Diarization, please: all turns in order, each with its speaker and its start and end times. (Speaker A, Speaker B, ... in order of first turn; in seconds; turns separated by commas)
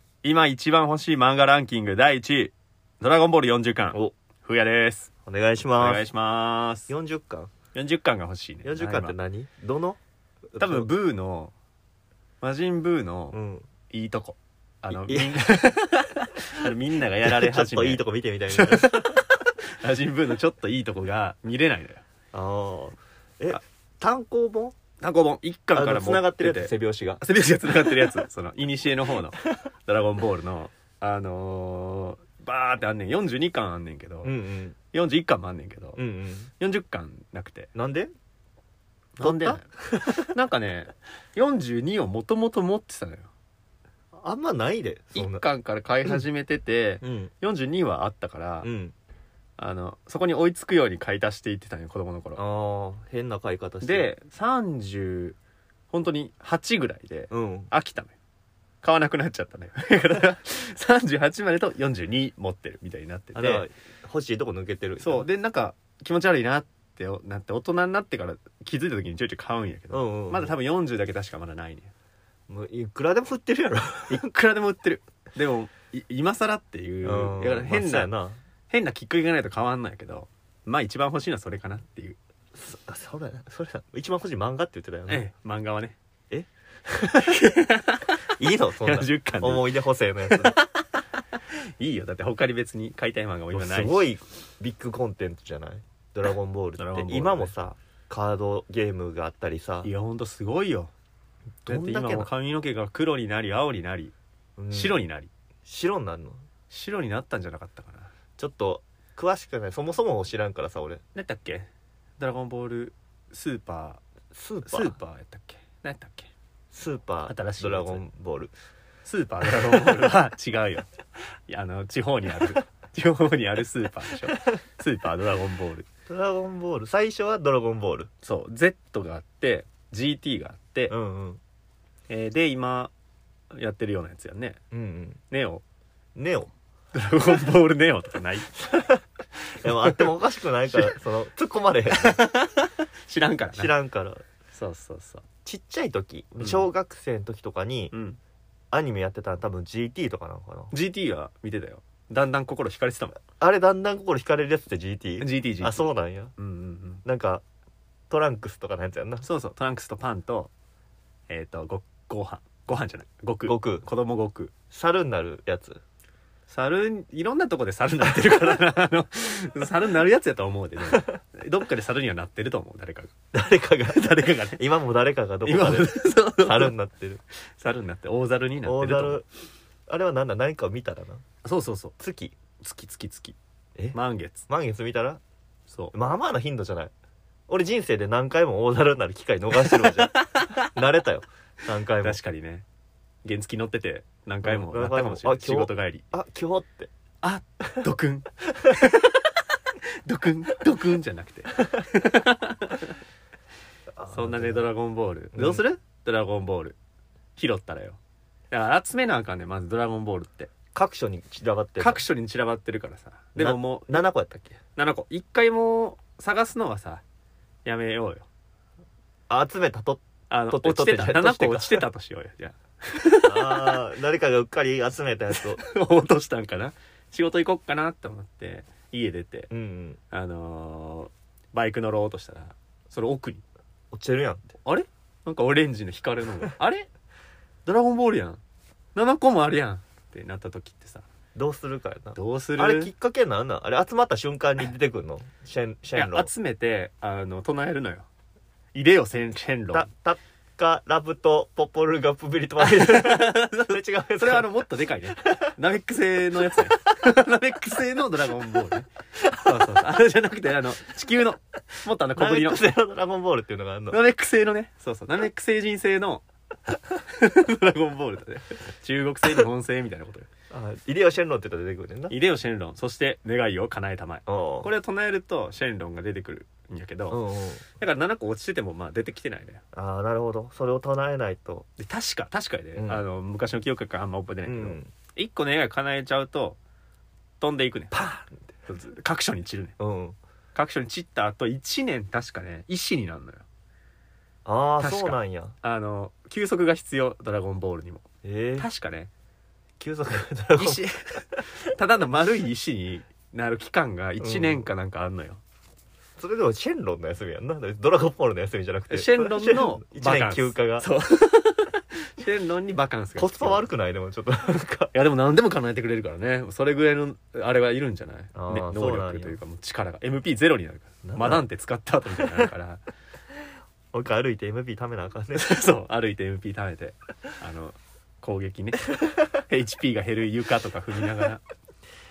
Speaker A: 0.2-5.1, Speaker B: 5.3-6.1, Speaker A: 5.8-6.9, Speaker B: 6.9-7.5, Speaker A: 7.7-9.2, Speaker B: 8.7-10.0, Speaker B: 10.5-10.9, Speaker A: 10.6-11.5, Speaker A: 12.4-13.4, Speaker B: 13.3-13.7, Speaker A: 13.9-22.0, Speaker B: 14.9-15.5, Speaker B: 17.2-19.3, Speaker B: 22.3-24.8, Speaker A: 25.0-34.3, Speaker B: 25.8-27.2, Speaker B: 27.8-28.1, Speaker B: 34.2-34.8, Speaker A: 34.9-36.0, Speaker B: 36.0-36.5, Speaker A: 36.6-37.7, Speaker B: 37.8-38.1, Speaker A: 39.2-43.3, Speaker B: 39.2-40.3, Speaker B: 44.1-45.4, Speaker A: 45.1-48.7, Speaker B: 47.0-47.3, Speaker B: 48.6-48.9, Speaker A: 49.6-52.4, Speaker B: 52.4-54.1, Speaker A: 53.8-55.4, Speaker A: 55.9-58.1, Speaker B: 57.3-57.7, Speaker A: 58.8-63.7, Speaker B: 63.4-65.3, Speaker A: 65.0-71.9, Speaker B: 69.9-70.5, Speaker B: 72.5-74.2, Speaker A: 74.1-78.1, Speaker B: 77.0-78.4, Speaker A: 78.7-82.2, Speaker B: 82.5-85.2, Speaker A: 85.1-86.0, Speaker B: 86.3-87.3, Speaker A: 87.1-89.7, Speaker B: 88.4-90.6, Speaker A: 90.3-90.9, Speaker A: 91.5-94.0, Speaker B: 93.5-99.9, Speaker A: 96.8-97.5, Speaker A: 99.8-100.9, Speaker B: 101.7-102.3, Speaker A: 101.7-104.1, Speaker B: 104.6-105.0, Speaker A: 104.7-105.3, Speaker B: 105.7-106.4, Speaker A: 106.7-108.1, Speaker B: 108.4-111.0, Speaker A: 111.2-114.0, Speaker B: 114.3-115.0, Speaker A: 114.7-116.3, Speaker B: 116.7-118.5, Speaker A: 117.3-118.0, Speaker A: 119.0-120.9, Speaker A: 121.5-125.9, Speaker B: 126.1-128.1, Speaker A: 128.2-130.9, Speaker B: 130.9-131.4, Speaker A: 132.1-132.9, Speaker A: 133.5-134.6, Speaker B: 134.7-135.2, Speaker A: 135.3-135.6, Speaker B: 136.2-136.5, Speaker A: 136.9-138.6, Speaker B: 138.6-139.0, Speaker B: 139.5-142.2, Speaker A: 139.7-140.0, Speaker A: 141.9-143.7, Speaker B: 143.5-144.2, Speaker A: 144.5-145.2, Speaker B: 145.4-147.9, Speaker A: 146.4-146.7, Speaker A: 147.9-148.2, Speaker B: 148.7-150.7, Speaker A: 150.7-153.2, Speaker B: 153.4-156.3, Speaker A: 155.2-157.0, Speaker B: 157.1-157.4, Speaker B: 158.1-159.3, Speaker A: 159.2-160.5, Speaker A: 161.3-164.5, Speaker B: 163.5-163.8, Speaker B: 164.7-165.8, Speaker A: 166.5-173.1, Speaker B: 173.3-177.2, Speaker A: 173.9-174.6, Speaker A: 175.4-176.8, Speaker A: 177.3-179.2, Speaker B: 178.6-179.3, Speaker B: 179.9-181.2, Speaker A: 181.4-181.9, Speaker B: 182.0-182.3, Speaker A: 182.6-183.4, Speaker A: 183.9-184.5, Speaker B: 184.5-185.2, Speaker B: 185.9-186.9, Speaker B: 187.5-192.2, Speaker A: 189.6-190.7, Speaker A: 192.0-192.7, Speaker A: 193.2-196.1, Speaker B: 194.4-196.9, Speaker A: 197.2-199.3, Speaker A: 200.0-203.0, Speaker B: 204.0-204.7, Speaker A: 204.1-206.8, Speaker B: 205.3-205.6, Speaker A: 207.4-208.0, Speaker A: 208.5-210.5, Speaker B: 210.7-212.0, Speaker A: 211.8-214.1, Speaker B: 213.4-214.6, Speaker A: 214.8-217.0, Speaker A: 217.7-218.3, Speaker B: 219.3-221.9, Speaker A: 220.3-223.8, Speaker B: 223.2-225.6, Speaker A: 225.3-229.5, Speaker B: 229.5-230.0, Speaker A: 230.1-233.4, Speaker B: 233.9-234.5, Speaker A: 234.6-236.9, Speaker A: 237.7-238.4, Speaker A: 238.9-241.1, Speaker B: 241.3-246.3, Speaker A: 242.2-242.9, Speaker A: 245.9-248.1, Speaker A: 248.8-249.9, Speaker B: 249.7-254.5, Speaker A: 252.6-262.7, Speaker B: 262.2-264.0, Speaker A: 263.9-266.2, Speaker A: 267.0-270.3, Speaker B: 270.5-272.1, Speaker A: 272.1-277.2, Speaker B: 274.3-274.7, Speaker B: 277.1-277.6, Speaker A: 277.8-279.6, Speaker B: 279.7-281.7, Speaker A: 281.8-286.6, Speaker B: 282.8-283.0, Speaker B: 284.4-284.9, Speaker A: 287.4-288.0, Speaker B: 287.9-288.3, Speaker A: 288.7-289.8, Speaker B: 289.8-290.2, Speaker A: 290.6-293.4, Speaker B: 294.4-295.5, Speaker A: 294.8-298.0, Speaker B: 298.2-298.7, Speaker A: 298.6-299.1, Speaker B: 299.8-300.8, Speaker A: 300.6-305.4, Speaker B: 304.2-304.6, Speaker B: 306.2-310.9, Speaker A: 308.9-313.7, Speaker B: 313.2-314.9, Speaker A: 314.9-322.8, Speaker B: 318.4-319.4, Speaker B: 321.0-321.4, Speaker B: 323.9-325.5, Speaker A: 325.4-331.4